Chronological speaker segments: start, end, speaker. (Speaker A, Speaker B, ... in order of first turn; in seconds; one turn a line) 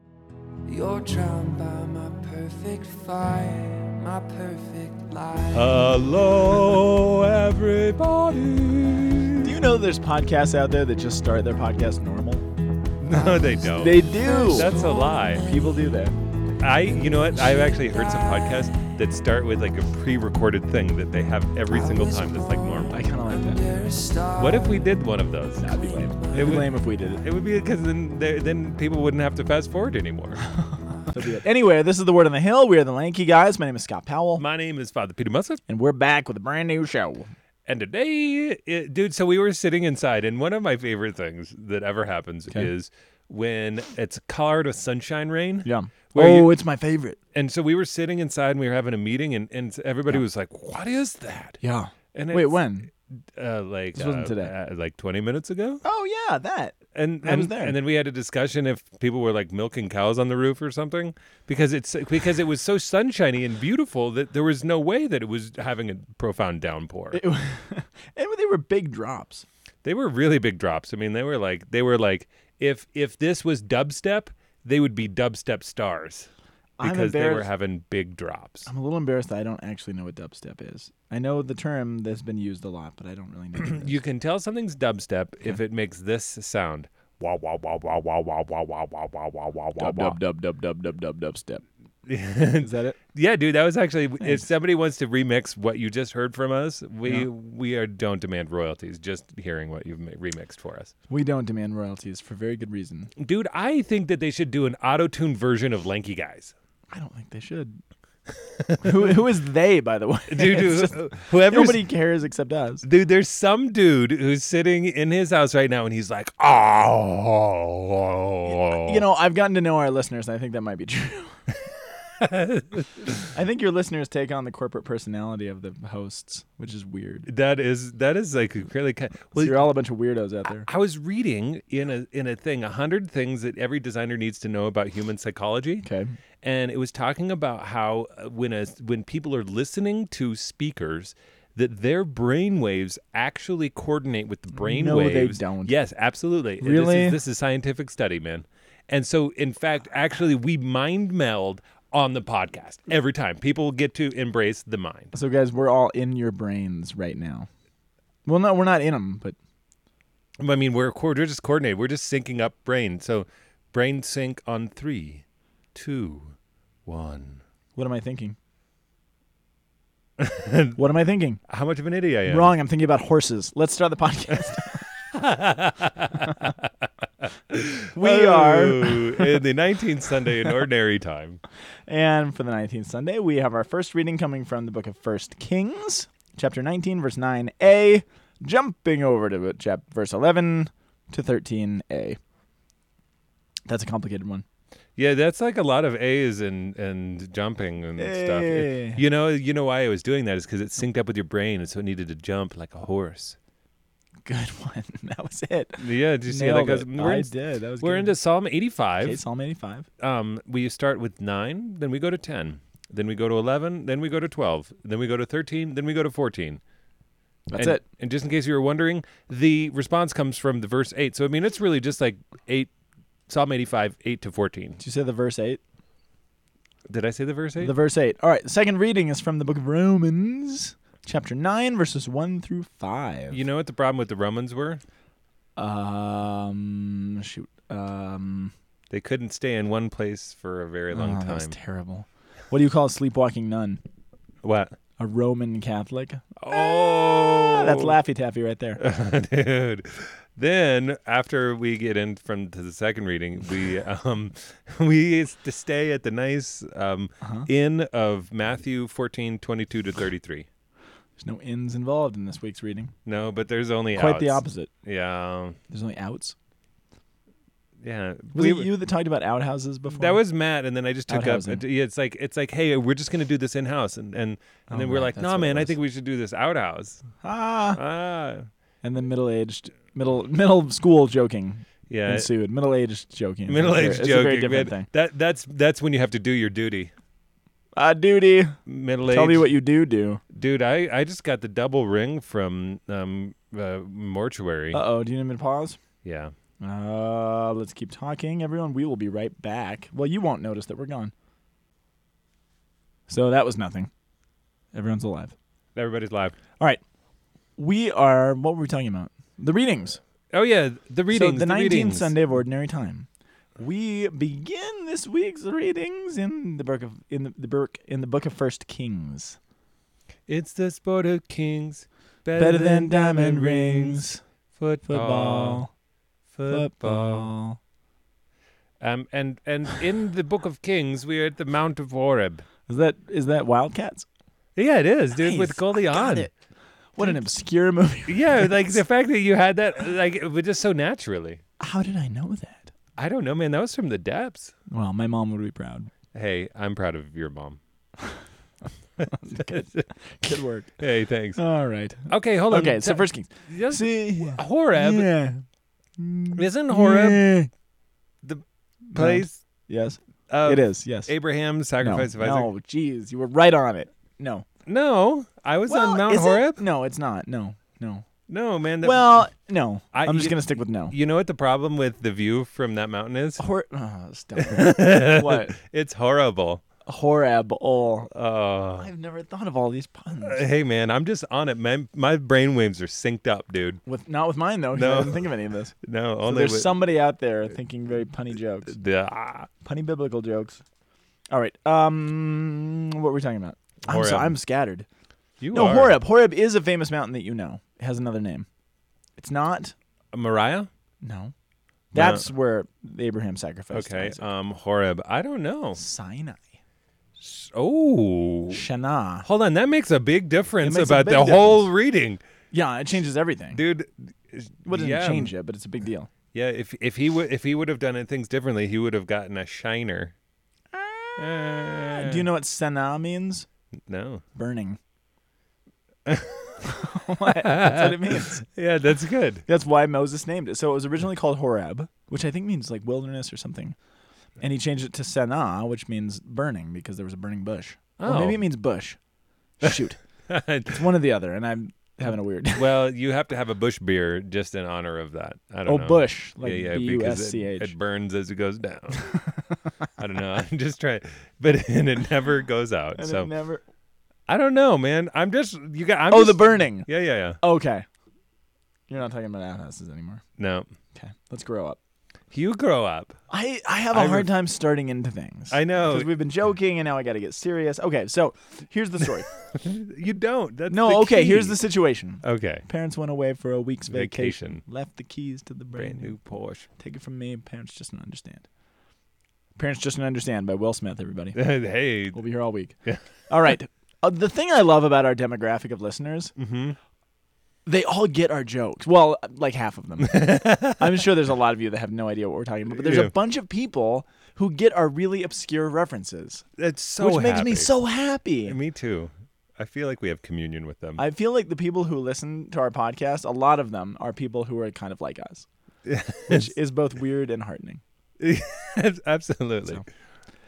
Speaker A: 0.7-6.0
Speaker B: 5.5-9.6
Speaker C: 9.4-12.5
Speaker B: 13.0-15.5
Speaker C: 13.6-14.8
Speaker A: 14.1-15.9
Speaker C: 15.3-16.1
Speaker B: 16.6-23.0
Speaker A: 17.1-18.8
Speaker A: 21.7-24.9
Speaker C: 22.9-23.6
Speaker B: 24.4-25.8
Speaker A: 25.6-26.7
Speaker C: 25.6-27.2
Speaker B: 26.3-30.4
Speaker C: 31.1-34.4
Speaker B: 34.4-35.6
Speaker C: 35.7-37.3
Speaker B: 37.7-46.5
Speaker C: 45.6-47.2
Speaker B: 47.3-51.6
Speaker C: 51.6-52.9
Speaker B: 52.1-55.8
Speaker C: 54.0-54.5
Speaker C: 55.8-57.8
Speaker B: 56.9-67.2
Speaker C: 67.1-69.5
Speaker B: 69.8-76.3
Speaker C: 76.8-77.5
Speaker B: 76.8-78.7
Speaker C: 78.7-84.0
Speaker B: 83.6-90.2
Speaker C: 89.8-91.6
Speaker B: 92.1-100.9
Speaker C: 92.6-93.0
Speaker C: 101.1-103.1
Speaker B: 103.2-106.5
Speaker C: 106.9-107.8
Speaker B: 108.3-109.2
Speaker C: 108.8-112.8
Speaker B: 110.3-111.8
Speaker B: 112.8-119.0
Speaker C: 118.5-121.4
Speaker B: 122.2-123.2
Speaker C: 123.2-127.3
Speaker B: 127.3-129.7
Speaker C: 129.4-130.7
Speaker B: 130.5-135.9
Speaker C: 135.8-136.1
Speaker B: 136.4-155.1
Speaker C: 144.5-145.7
Speaker C: 146.6-147.2
Speaker C: 155.1-157.5
Speaker C: 158.3-159.4
Speaker B: 160.4-165.2
Speaker B: 165.8-166.3
Speaker B: 166.9-167.4
Speaker C: 167.8-168.4
Speaker B: 170.2-170.8
Speaker C: 170.8-171.4
Speaker B: 171.5-172.5
Speaker C: 172.3-174.9
Speaker B: 175.1-181.4
Speaker C: 177.9-179.4
Speaker C: 181.9-192.2
Speaker C: 193.7-194.4
Speaker B: 195.0-203.4
Speaker C: 198.0-199.0
Speaker C: 204.3-208.2
Speaker B: 205.8-209.2
Speaker C: 209.0-209.9
Speaker B: 210.0-216.6
Speaker C: 217.5-217.8
Speaker B: 217.6-222.7
Speaker B: 223.3-224.8
Speaker C: 224.8-225.6
Speaker B: 226.9-227.8
Speaker C: 227.6-233.4
Speaker B: 233.3-234.8
Speaker C: 235.6-238.5
Speaker B: 238.9-241.6
Speaker C: 240.9-243.8
Speaker B: 244.4-244.8
Speaker C: 245.0-248.8
Speaker B: 246.4-248.0
Speaker B: 248.8-260.5
Speaker C: 257.2-257.5
Speaker C: 261.2-262.9
Speaker B: 263.1-265.6
Speaker C: 263.9-264.7
Speaker C: 265.7-266.4
Speaker B: 267.8-268.7
Speaker C: 268.3-270.2
Speaker B: 269.9-277.0
Speaker C: 271.1-271.6
Speaker C: 274.7-275.8
Speaker C: 277.2-277.8
Speaker B: 277.8-278.5
Speaker C: 278.8-284.9
Speaker B: 281.9-282.3
Speaker B: 283.5-286.9
Speaker C: 287.8-290.2
Speaker B: 288.7-289.5
Speaker B: 290.3-294.8
Speaker C: 294.7-295.8
Speaker B: 296.0-296.3
Speaker C: 296.6-301.1
Speaker C: 303.1-303.9
Speaker C: 304.7-305.4
Speaker B: 305.8-306.4
Speaker C: 307.6-310.0
Speaker B: 310.3-312.1
Speaker C: 311.1-319.4
Speaker B: 320.3-325.6
Speaker C: 322.4-324.2
Speaker C: 324.9-325.7
Speaker B: 326.3-327.3
Speaker C: 326.5-327.6
Speaker B: 328.8-332.4
Speaker C: 332.7-334.1
Speaker B: 334.6-336.3
Speaker C: 335.2-336.3
Speaker C: 337.0-338.8
Speaker B: 338.1-341.4
Speaker C: 341.6-342.7
Speaker B: 343.0-344.5
Speaker C: 344.7-345.9
Speaker B: 346.1-347.6
Speaker C: 349.1-350.8
Speaker B: 349.3-351.4
Speaker C: 351.4-355.4
Speaker B: 352.1-355.1
Speaker C: 356.0-357.5
Speaker B: 356.4-357.3
Speaker B: 358.2-359.4
Speaker C: 358.9-361.1
Speaker B: 360.3-362.5
Speaker C: 361.8-364.5
Speaker B: 364.7-366.6
Speaker C: 365.7-368.1
Speaker B: 368.3-369.0
Speaker C: 368.8-370.9
Speaker B: 369.9-373.4
Speaker C: 373.4-375.6
Speaker B: 374.4-376.6
Speaker C: 376.9-378.1
Speaker B: 378.1-378.9
Speaker C: 378.8-380.4
Speaker B: 380.2-383.8
Speaker C: 383.9-388.8
Speaker B: 384.7-386.8
Speaker B: 388.7-389.5
Speaker C: 389.6-390.6
Speaker C: 391.3-394.9
Speaker B: 393.8-394.4
Speaker B: 395.4-396.0
Speaker C: 395.5-398.5
Speaker C: 399.2-399.8
Speaker B: 400.1-400.7
Speaker C: 401.0-401.3
Speaker C: 401.9-404.2
Speaker B: 401.9-402.3
Speaker B: 403.7-405.8
Speaker C: 405.8-406.4
Speaker B: 407.2-408.6
Speaker C: 408.5-409.2
Speaker B: 409.2-412.2
Speaker C: 410.6-411.7
Speaker C: 412.5-413.6
Speaker B: 413.5-415.3
Speaker C: 414.7-416.1
Speaker B: 416.3-420.1
Speaker C: 420.7-423.5
Speaker B: 421.2-422.3
Speaker B: 423.9-424.2
Speaker C: 424.4-424.8
Speaker B: 426.1-426.7
Speaker C: 426.6-428.4
Speaker B: 427.2-429.4
Speaker C: 429.5-433.8
Speaker C: 434.4-439.0
Speaker B: 438.0-438.4
Speaker C: 439.6-440.0
Speaker B: 439.6-440.9
Speaker C: 440.7-442.7
Speaker B: 442.6-449.1
Speaker C: 445.7-447.7
Speaker C: 449.0-449.4
Speaker B: 450.0-453.3
Speaker C: 453.0-453.6
Speaker B: 454.3-457.4
Speaker C: 456.1-456.9
Speaker C: 457.4-457.9
Speaker C: 458.9-460.2
Speaker B: 460.4-460.7
Speaker C: 460.9-461.8
Speaker B: 462.3-463.2
Speaker C: 463.3-469.3
Speaker B: 463.9-464.3
Speaker B: 465.5-466.1
Speaker B: 469.5-471.6
Speaker C: 470.7-478.5
Speaker B: 472.2-472.7
Speaker B: 473.9-474.6
Speaker B: 475.7-476.7
Speaker C: 479.6-481.4
Speaker B: 481.4-482.2
Speaker C: 482.1-482.8
Speaker C: 483.3-486.4
Speaker B: 486.4-486.8
Speaker C: 487.7-496.4
Speaker B: 490.0-491.1
Speaker B: 492.7-493.1
Speaker B: 496.6-497.7
Speaker C: 497.0-498.6
Speaker B: 498.4-501.0
Speaker C: 501.0-505.5
Speaker B: 505.9-506.5
Speaker C: 506.3-507.8
Speaker B: 508.2-509.9